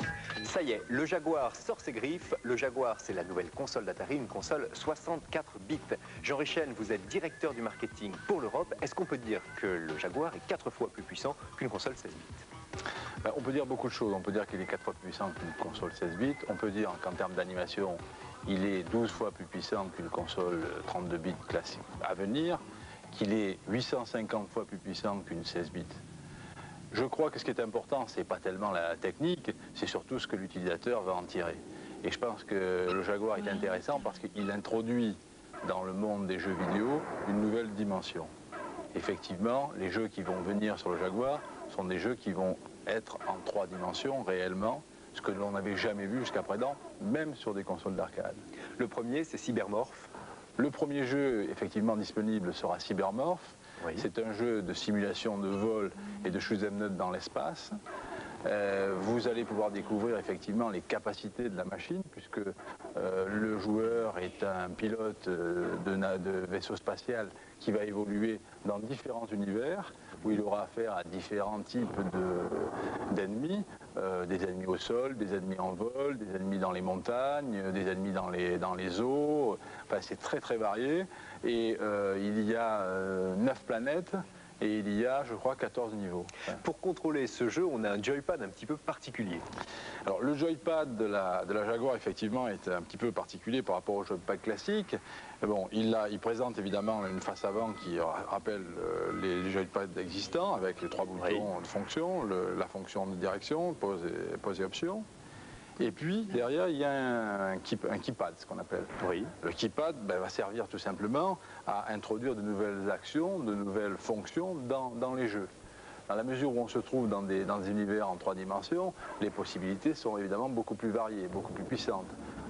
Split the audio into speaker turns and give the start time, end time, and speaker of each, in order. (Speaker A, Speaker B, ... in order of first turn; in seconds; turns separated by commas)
Speaker A: 0.4-12.4, Speaker B: 13.2-22.6, Speaker B: 23.1-26.0, Speaker B: 26.9-38.3, Speaker B: 38.9-48.4, Speaker A: 48.8-50.1, Speaker B: 50.6-57.7, Speaker B: 58.4-86.6, Speaker A: 86.5-89.5, Speaker B: 90.0-105.0, Speaker A: 101.2-101.5, Speaker B: 105.8-115.5, Speaker A: 109.0-109.3, Speaker B: 116.1-122.1